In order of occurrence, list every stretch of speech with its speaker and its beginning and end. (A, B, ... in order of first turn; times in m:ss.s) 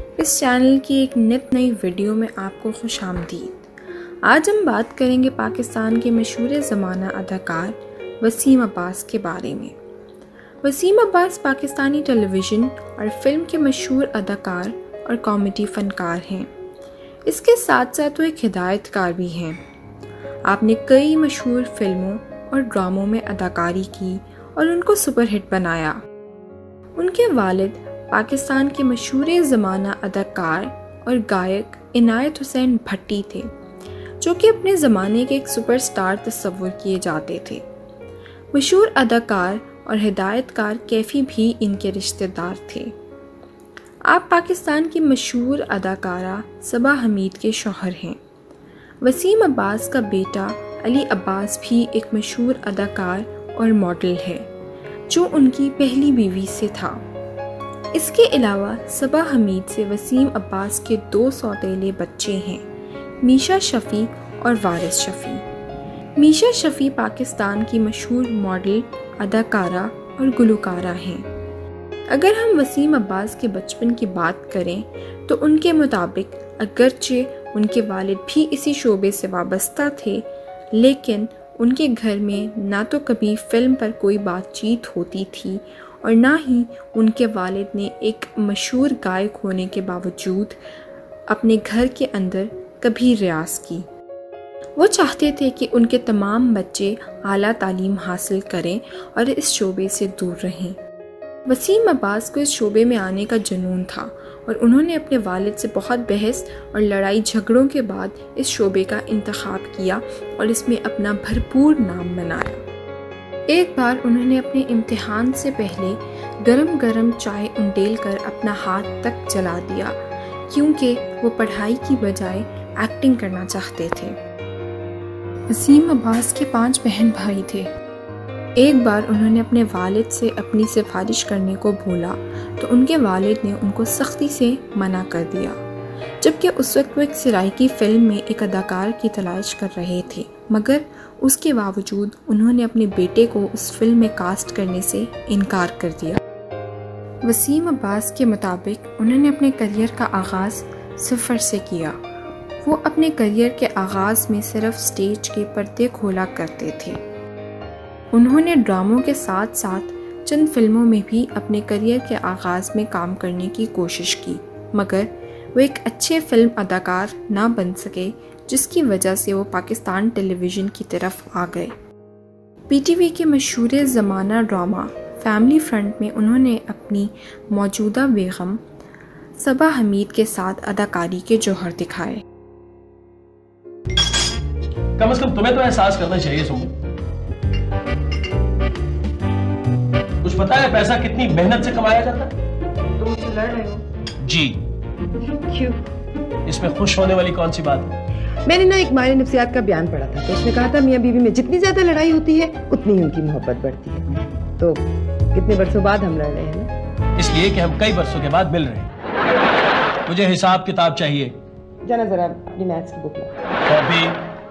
0:00.2-0:03.7 A
0:04.2-0:09.7 A
0:10.6-0:16.5 A
0:17.3-0:19.6 A
0:20.5-0:26.0 A
0:27.0-0:33.5 A
0:34.2-0:37.6 A
0:38.5-0:42.9 A
0:44.1-0:48.2 A
0:49.0-0:54.5 A
0:55.1-0:57.0 A
0:57.9-1:02.6 A
1:03.2-1:05.4 A
1:06.2-1:11.2 A
1:12.1-1:30.6 A
1:31.3-1:33.8 A
1:34.8-1:40.8 A
1:41.5-1:52.6 A
1:53.5-2:00.0 A
2:00.5-2:04.2 A
2:05.5-2:07.7 A
2:08.6-2:15.6 A
2:16.2-2:26.2 A
2:27.2-2:32.0 A
2:32.6-2:37.0 A
2:38.1-2:51.7 A
2:52.7-2:58.6 A
2:59.4-3:02.2 A
3:05.0-3:06.7 B
3:10.2-3:12.3 B
3:13.0-3:13.8 C
3:14.2-3:14.6 B
3:15.2-3:15.8 C
3:16.5-3:17.9 B
3:18.4-3:26.7 C
3:27.2-3:28.9 B
3:30.0-3:31.3 B
3:31.8-3:33.3 C
3:33.7-3:34.2 B